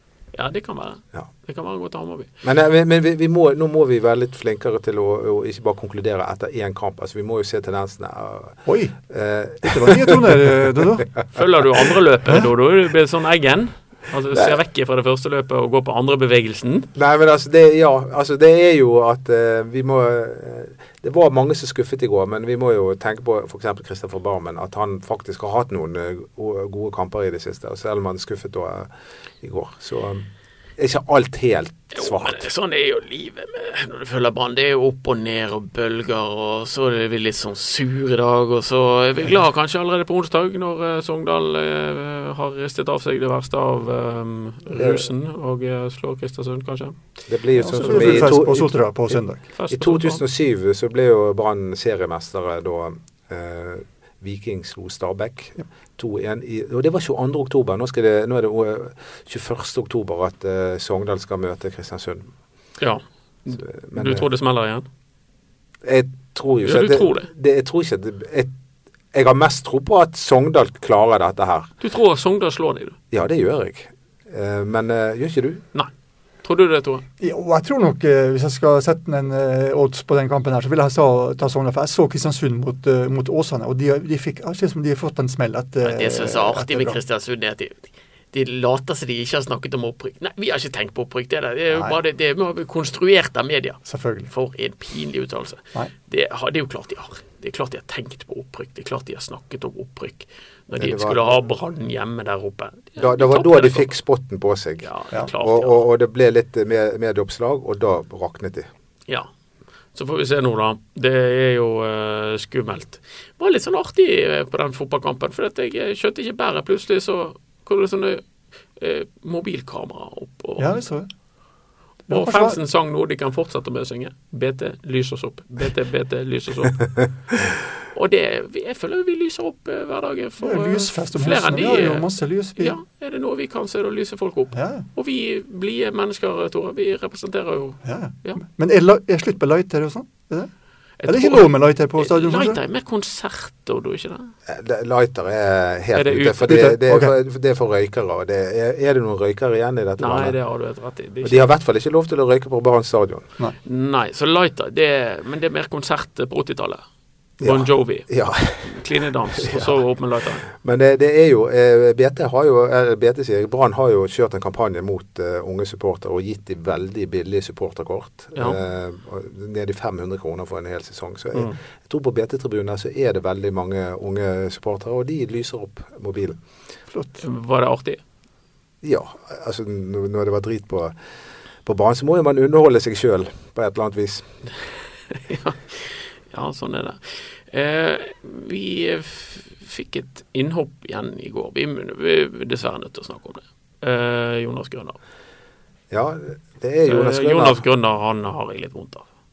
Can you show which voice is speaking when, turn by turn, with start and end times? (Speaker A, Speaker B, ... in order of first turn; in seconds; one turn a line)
Speaker A: 0.3-2.3
Speaker B: 2.4-10.4
Speaker C: 8.7-9.0
Speaker C: 9.6-11.1
Speaker A: 11.3-16.9
Speaker B: 16.9-28.9
Speaker B: 29.4-30.3
Speaker B: 30.8-32.5
Speaker A: 31.9-47.0
Speaker B: 44.8-45.0
Speaker B: 47.3-48.7
Speaker C: 47.6-49.4
Speaker A: 49.5-50.2
Speaker B: 49.7-62.3
Speaker A: 62.8-64.9
Speaker B: 63.6-64.3
Speaker B: 65.8-68.5
Speaker A: 66.7-67.3
Speaker B: 69.1-71.7
Speaker A: 71.8-73.0
Speaker B: 73.1-75.6
Speaker A: 76.4-77.0
Speaker C: 77.2-87.0
Speaker A: 85.8-103.9
Speaker C: 91.7-92.0
Speaker C: 93.9-94.3
Speaker B: 100.8-101.4
Speaker B: 103.0-108.7
Speaker A: 104.8-105.8
Speaker A: 109.9-118.2
Speaker A: 118.8-120.8
Speaker C: 120.6-121.1
Speaker C: 122.1-122.6
Speaker A: 122.1-126.8
Speaker A: 127.9-138.4
Speaker C: 130.4-132.8
Speaker C: 134.5-134.8
Speaker C: 137.8-140.5
Speaker A: 141.0-144.3
Speaker C: 141.1-142.6
Speaker B: 144.5-150.4
Speaker A: 145.9-146.6
Speaker C: 146.5-147.1
Speaker A: 150.0-151.4
Speaker B: 151.2-153.2
Speaker A: 153.6-156.8
Speaker B: 157.4-159.8
Speaker A: 157.4-158.1
Speaker A: 158.6-160.4
Speaker B: 160.5-176.4
Speaker C: 176.9-177.2
Speaker A: 177.2-178.0
Speaker B: 178.8-180.9
Speaker B: 181.7-184.3
Speaker A: 185.1-195.0
Speaker B: 195.9-197.6
Speaker A: 196.9-199.1